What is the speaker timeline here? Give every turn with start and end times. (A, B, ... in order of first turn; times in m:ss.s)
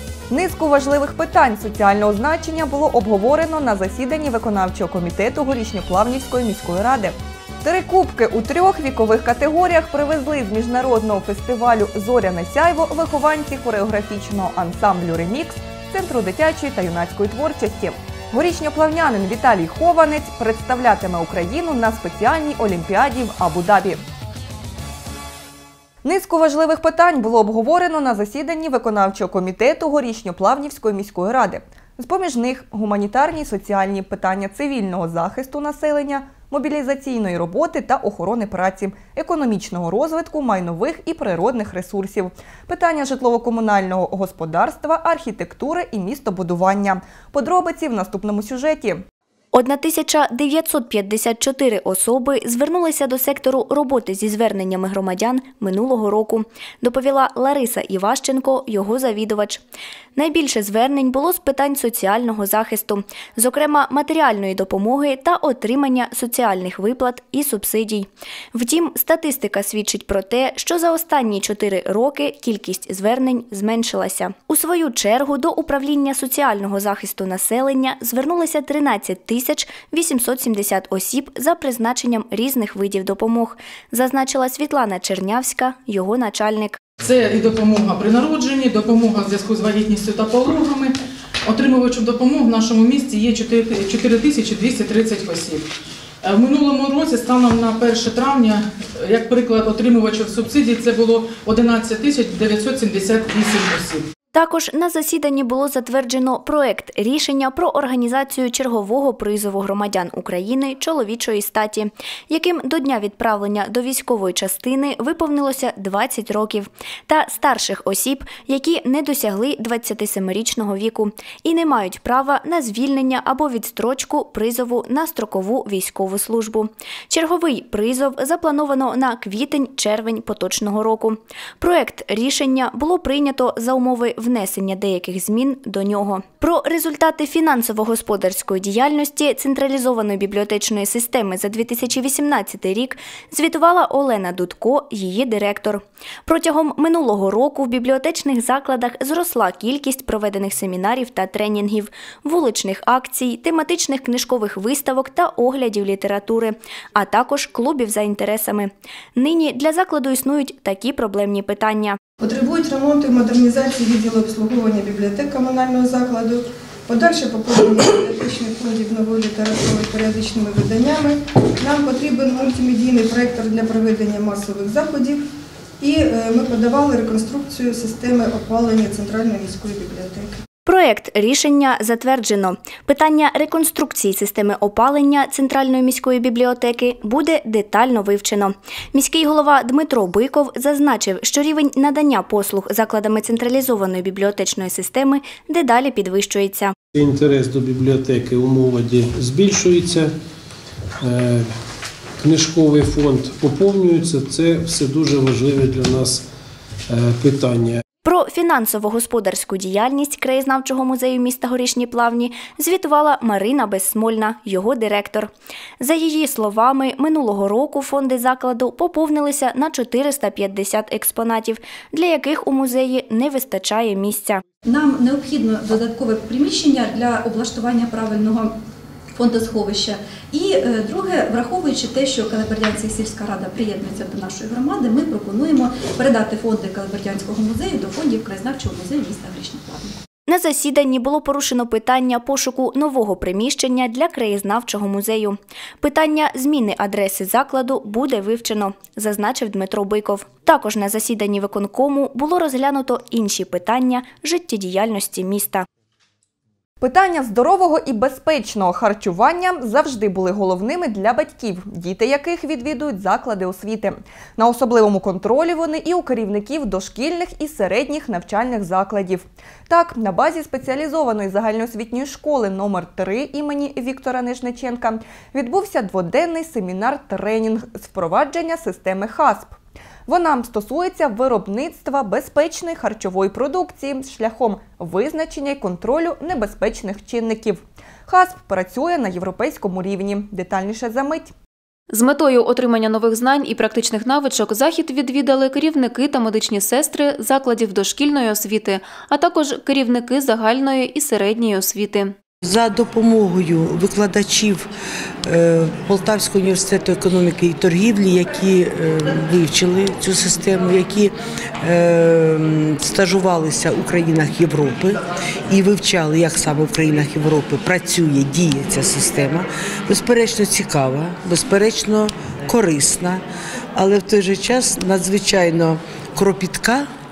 0:00.3-0:24.0 A
0:26.0-0:49.0 A
0:49.5-0:59.6 B
1:00.2-1:26.8 B
1:27.0-1:35.7 C
1:36.2-1:44.1 C
1:44.3-2:42.0 B
2:42.2-2:55.2 D
2:55.8-3:00.4 D
3:00.7-3:16.7 B
3:17.1-3:20.1 E
3:22.2-3:26.2 E
3:27.0-3:27.7 E
3:28.0-3:44.4 B
3:44.7-3:48.6 F
3:49.2-3:59.9 F
4:00.3-4:15.6 B
4:16.8-4:39.6 A
4:40.1-4:51.3 A
4:51.9-5:02.2 G
5:02.4-5:04.7 H
5:05.2-5:23.2 H
5:23.8-5:26.9 H